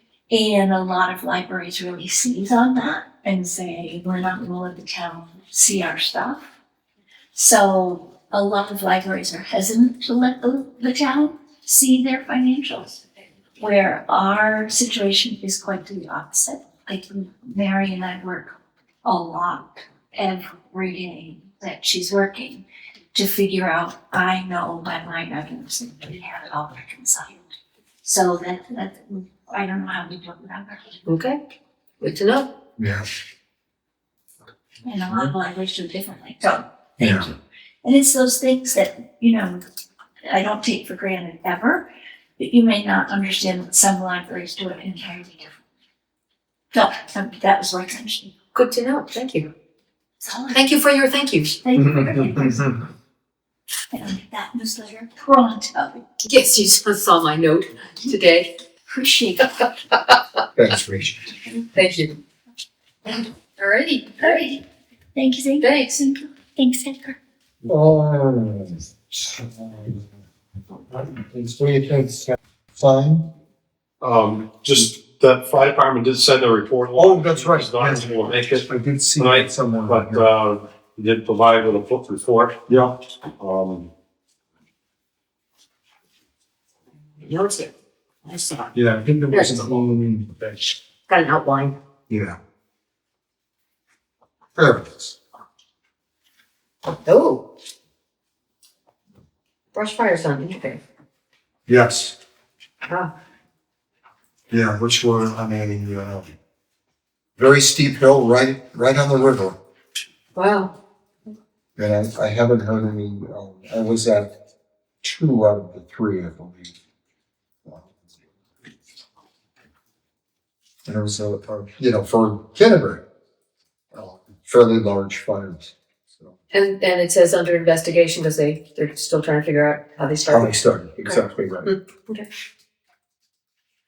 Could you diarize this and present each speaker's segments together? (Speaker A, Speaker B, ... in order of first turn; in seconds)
Speaker A: 0.3-6.5, 7.3-13.0, 13.6-27.4, 28.0-31.0, 34.8-39.6, 40.2-45.5, 46.7-48.3, 50.2-50.7, 51.6-52.8, 53.9-56.0, 58.9-59.7, 64.2-64.6, 65.1-67.2
Speaker B: 31.1-31.4, 32.0-32.5, 48.5-49.5, 50.5-51.6, 56.2-58.5, 61.6-62.2, 63.6-64.6, 65.6-65.9, 87.2-87.7, 88.2-88.7, 89.3-89.7, 91.1-91.7, 97.0-97.4, 99.7-100.8, 102.8-103.1, 110.3-110.7, 126.5-132.3
Speaker C: 32.8-33.0, 37.0-37.3, 60.5-61.3, 67.6-70.1, 70.9-73.3, 76.9-80.3, 82.7-83.0, 88.7-90.6, 92.1-92.4, 94.5-95.2, 101.7-102.2, 104.5-106.2, 107.4-109.6, 111.8-114.3, 115.0-116.7, 117.6-118.1, 120.8-123.0, 123.9-126.3, 130.2-131.7
Speaker D: 74.0-78.7, 79.2-82.6, 83.4-83.9